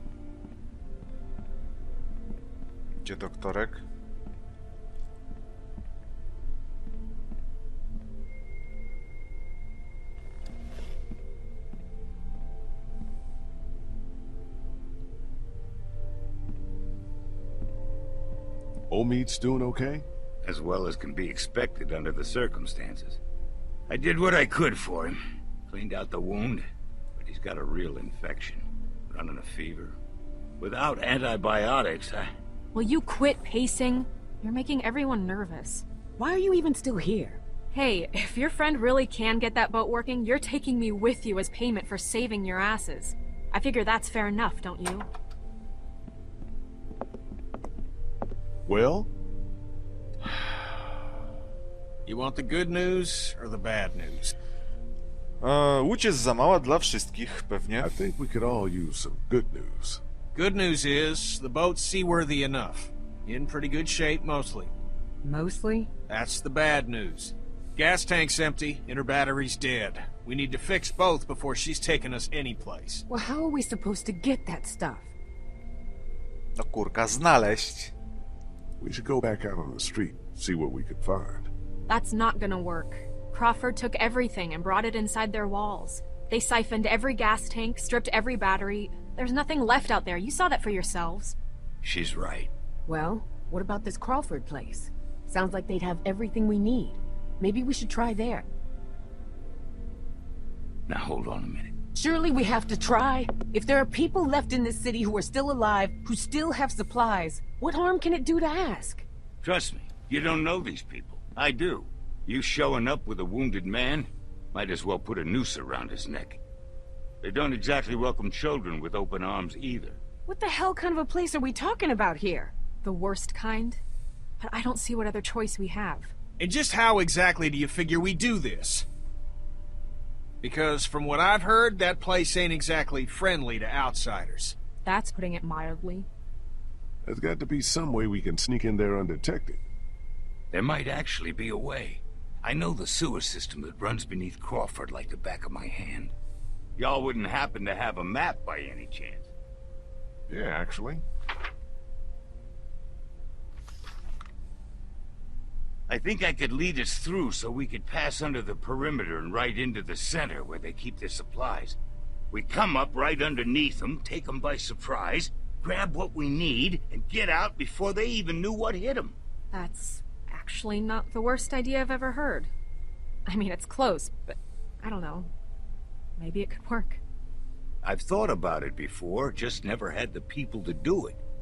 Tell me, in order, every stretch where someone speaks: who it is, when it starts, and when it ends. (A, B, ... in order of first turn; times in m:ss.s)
0:03.0-0:03.8 A
0:18.9-0:20.0 B
0:20.4-0:23.2 C
0:23.9-0:30.0 C
0:30.6-0:32.3 C
0:32.7-0:35.8 D
0:36.2-0:37.4 E
0:37.7-0:45.1 D
0:48.6-0:49.1 B
0:52.0-0:54.4 F
0:55.4-0:58.0 A
0:57.8-1:00.0 B
1:00.4-1:04.7 F
1:05.2-1:05.9 E
1:06.1-1:13.0 F
1:13.1-1:15.1 E
1:16.6-1:17.9 A
1:18.8-1:21.5 B
1:21.9-1:31.4 D
1:31.8-1:32.5 C
1:32.9-1:38.5 E
1:40.9-1:41.7 C
1:42.0-1:49.0 E
1:49.4-1:56.4 C
1:57.2-2:00.0 C
2:00.3-2:02.6 E
2:02.8-2:03.8 D
2:04.4-2:06.1 D
2:06.4-2:08.9 F
2:10.4-2:14.6 F
2:14.8-2:16.1 D
2:17.0-2:19.6 B
2:20.5-2:26.1 C
2:26.8-2:29.3 C
2:30.3-2:31.0 B
2:35.9-2:41.8 C
2:42.3-2:49.1 C
2:49.5-2:52.5 D
2:53.2-2:55.3 D
2:56.2-2:57.0 D
2:57.8-3:01.2 C